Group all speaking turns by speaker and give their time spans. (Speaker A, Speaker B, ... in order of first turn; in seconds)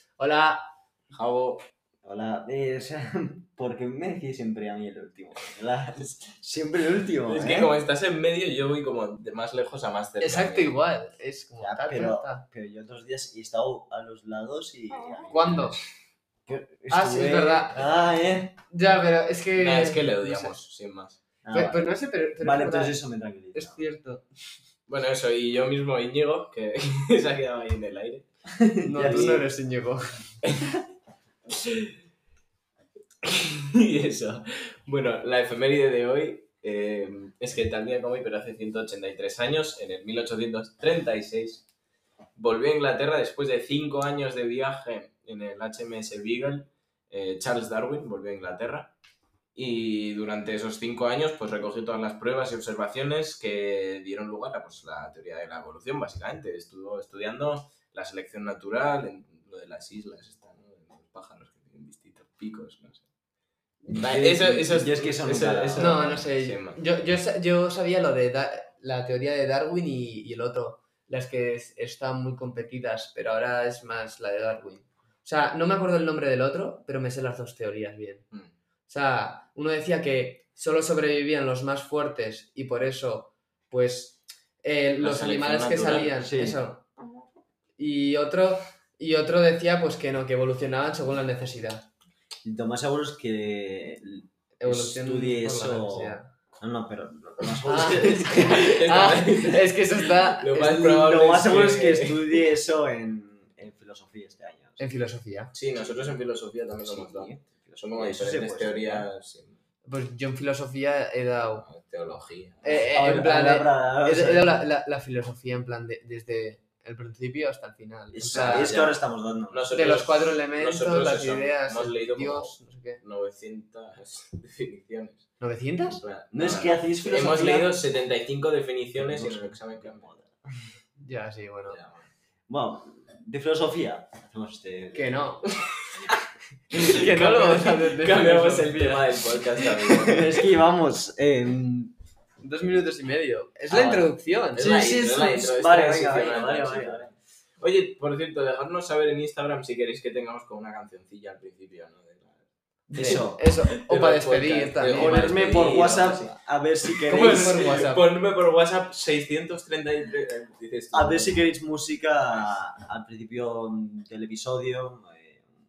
Speaker A: 0.2-0.7, 10.2-12.4, 15.3-15.8, 16.9-17.9, 18.7-20.6, 21.5-23.0, 23.5-24.3, 28.8-30.3, 65.8-78.2, 78.9-86.8, 87.8-91.9, 94.6-96.3, 97.7-101.0, 104.8-105.5, 109.9-111.7, 112.6-118.9, 119.7-123.0, 125.4-126.0, 131.0-131.8, 134.9-135.5, 136.7-139.1, 142.4-144.8, 152.9-155.8, 157.1-158.1
Speaker B: 1.1-1.6, 7.3-10.7, 19.5-21.2, 24.9-28.2, 29.0-29.3, 31.5-31.9, 33.2-41.6, 42.4-48.9, 49.5-63.0, 63.9-66.8, 85.0-86.2, 97.7-102.5, 105.5-109.5, 111.5-112.9, 118.2-125.2, 125.9-130.1, 131.7-132.1, 136.8-140.5, 144.5-152.4, 152.9-161.4
Speaker C: 2.0-7.7, 11.6-15.8, 16.5-18.6, 21.4-21.9, 22.4-23.8, 28.6-29.4, 63.8-66.0, 86.2-86.6, 92.4-98.7, 100.7-104.8, 106.8-109.1, 112.9-114.6, 118.1-119.7, 126.3-127.7, 129.0-130.3, 132.5-135.2, 139.7-141.9, 143.7-147.1, 152.9-153.4, 154.9-157.8, 160.9-165.5